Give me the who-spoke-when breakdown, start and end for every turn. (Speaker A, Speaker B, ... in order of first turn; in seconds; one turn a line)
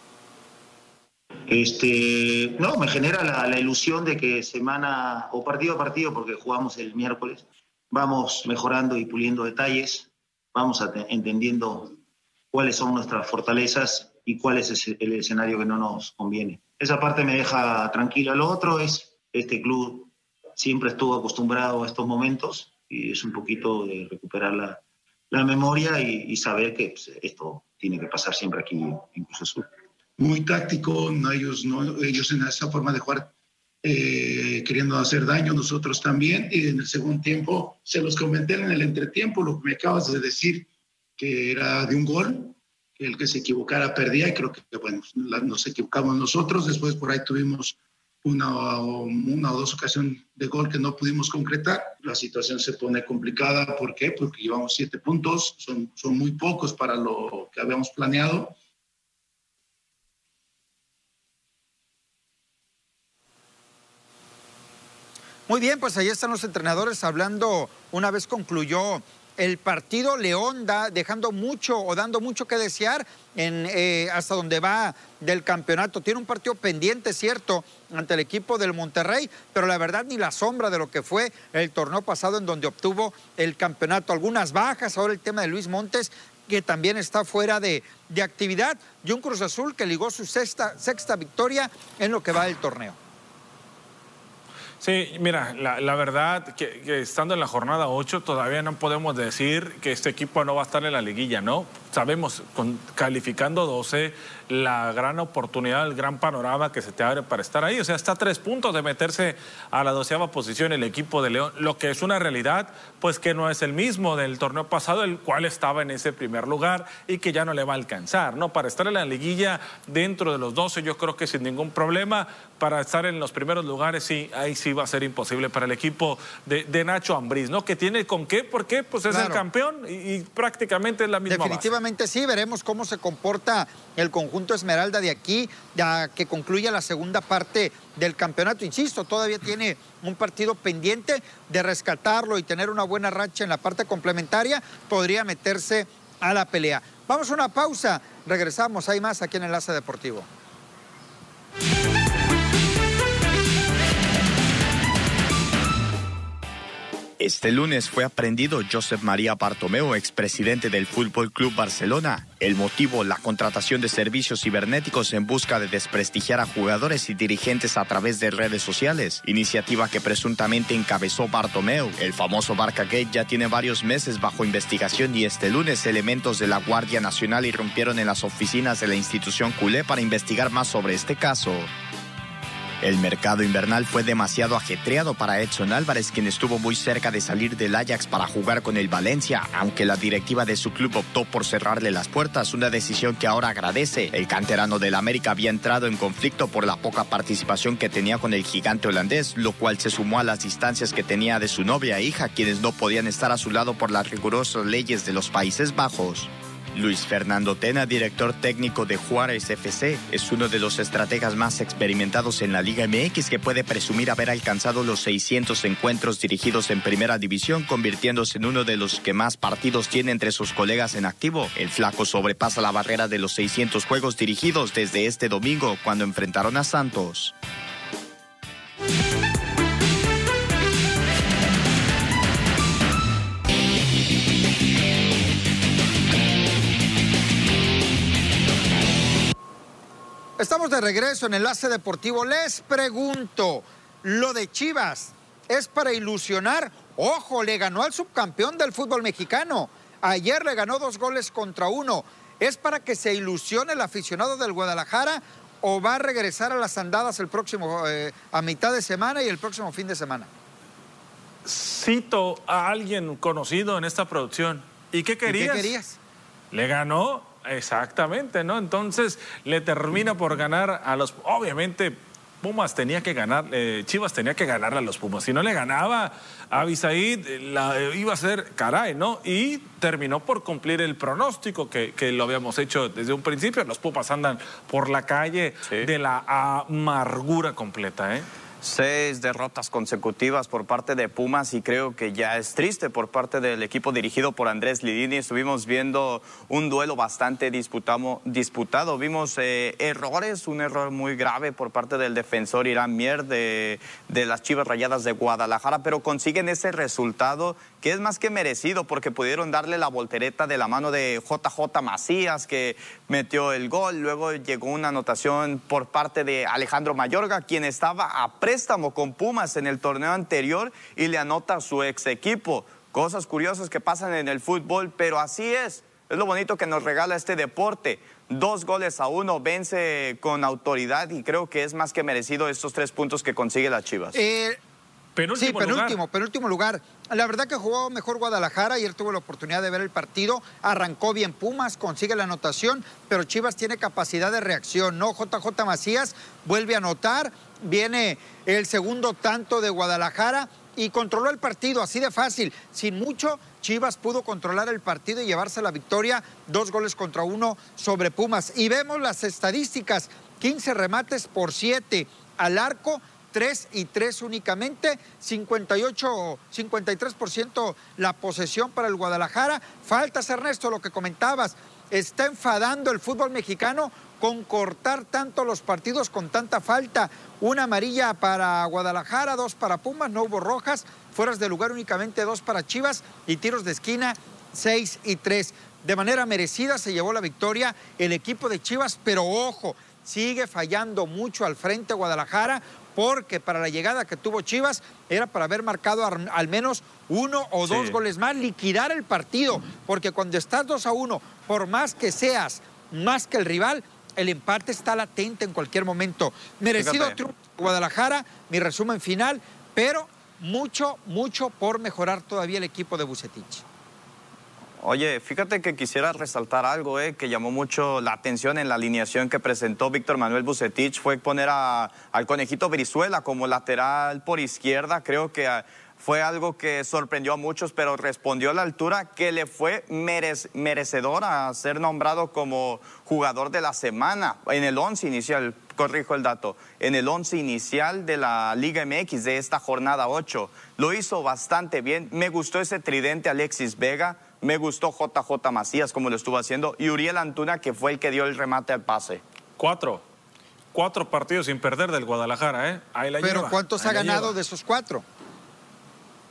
Speaker A: 1.5-12.0
Speaker A: 12.5-29.7
Speaker B: 30.2-33.3
Speaker B: 33.8-58.6
Speaker C: 65.5-93.0
Speaker D: 94.8-131.7
Speaker C: 129.1-129.4
Speaker C: 131.3-150.3
Speaker E: 157.2-181.7
Speaker E: 182.8-227.3
Speaker C: 240.4-260.3
Speaker D: 261.4-265.7
Speaker C: 265.3-266.0
Speaker D: 266.5-288.3
Speaker E: 288.6-334.2
Speaker C: 334.1-334.6
Speaker D: 335.2-336.0
Speaker C: 335.4-413.6
Speaker E: 406.8-407.2
Speaker E: 414.8-449.2
Speaker D: 449.6-450.0
Speaker D: 450.7-454.4
Speaker C: 453.2-455.0